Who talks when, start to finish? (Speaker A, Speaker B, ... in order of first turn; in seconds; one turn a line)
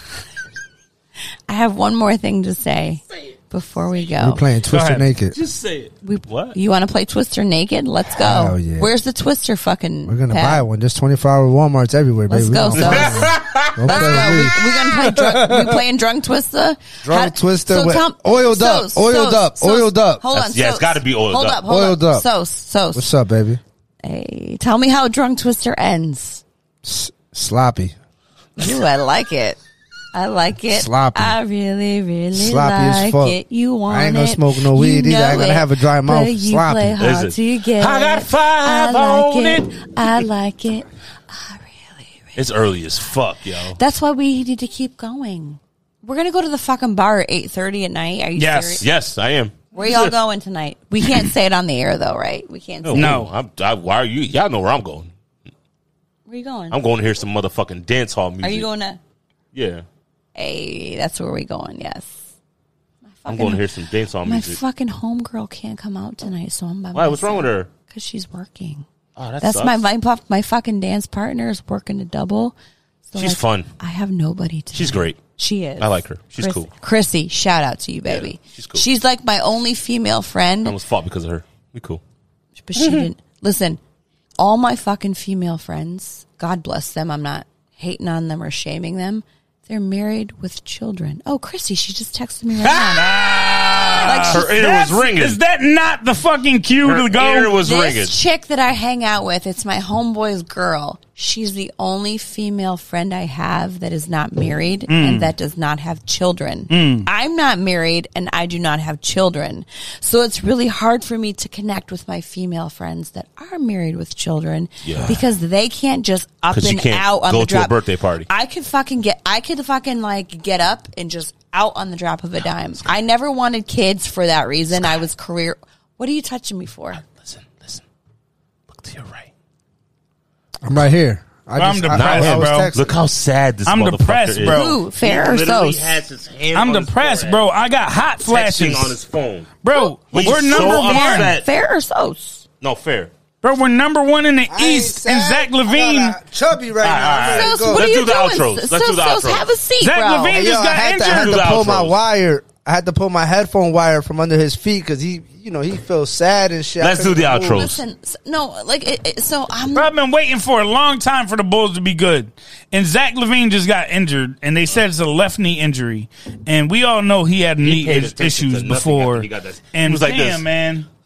Speaker A: 1.5-4.4
Speaker B: 4.2-5.4
Speaker C: 4.7-5.1
Speaker D: 5.3-6.6
Speaker A: 6.0-10.7
Speaker B: 8.1-8.9
Speaker B: 10.1-15.8
Speaker A: 12.3-23.1
Speaker D: 12.7-14.6
Speaker B: 17.0-20.2
Speaker D: 20.3-21.6
Speaker B: 21.6-22.3
Speaker B: 22.9-23.6
Speaker A: 24.0-26.4
Speaker B: 26.8-27.9
Speaker A: 28.6-29.6
Speaker A: 30.1-42.4
Speaker B: 30.7-31.4
Speaker B: 32.3-33.4
Speaker B: 33.9-37.0
Speaker D: 37.0-39.9
Speaker D: 42.4-43.8
Speaker A: 43.7-48.9
Speaker C: 48.4-48.8
Speaker D: 48.8-50.1
Speaker A: 49.7-53.1
Speaker D: 52.8-55.1
Speaker C: 52.9-53.3
Speaker A: 56.3-56.8
Speaker D: 56.7-58.7
Speaker A: 58.4-59.0
Speaker D: 59.5-59.9
Speaker A: 60.4-62.2
Speaker A: 63.1-63.7
Speaker D: 63.3-64.6
Speaker A: 64.2-68.8
Speaker D: 66.9-67.7
Speaker D: 69.2-69.8
Speaker A: 69.4-72.5
Speaker A: 73.1-80.8
Speaker D: 73.2-73.7
Speaker D: 74.7-75.2
Speaker D: 75.8-76.7
Speaker D: 78.1-78.8
Speaker D: 80.6-82.0
Speaker A: 82.6-83.8
Speaker D: 82.8-83.1
Speaker A: 84.4-93.2
Speaker D: 92.6-93.0
Speaker C: 92.9-97.5
Speaker A: 94.0-94.5
Speaker D: 94.0-95.4
Speaker D: 96.8-98.2
Speaker A: 97.6-117.8
Speaker C: 104.9-105.3
Speaker C: 106.7-107.1
Speaker D: 114.8-115.2
Speaker D: 116.5-118.3
Speaker A: 118.3-127.0
Speaker D: 126.9-127.8
Speaker D: 128.7-129.3
Speaker B: 130.6-132.9
Speaker C: 131.6-132.7
Speaker D: 131.9-137.4
Speaker C: 133.7-134.8
Speaker A: 134.5-135.8
Speaker C: 136.5-139.0
Speaker D: 138.3-139.6
Speaker C: 139.6-141.3
Speaker A: 139.7-142.4
Speaker D: 140.1-141.4
Speaker D: 142.6-143.1
Speaker C: 143.4-146.2
Speaker B: 144.5-147.9
Speaker D: 146.8-149.5
Speaker A: 147.3-150.5
Speaker C: 149.8-151.4
Speaker B: 150.3-157.7
Speaker D: 151.0-151.9
Speaker D: 156.8-157.8
Speaker A: 157.4-159.9
Speaker C: 159.7-170.9
Speaker D: 167.6-170.4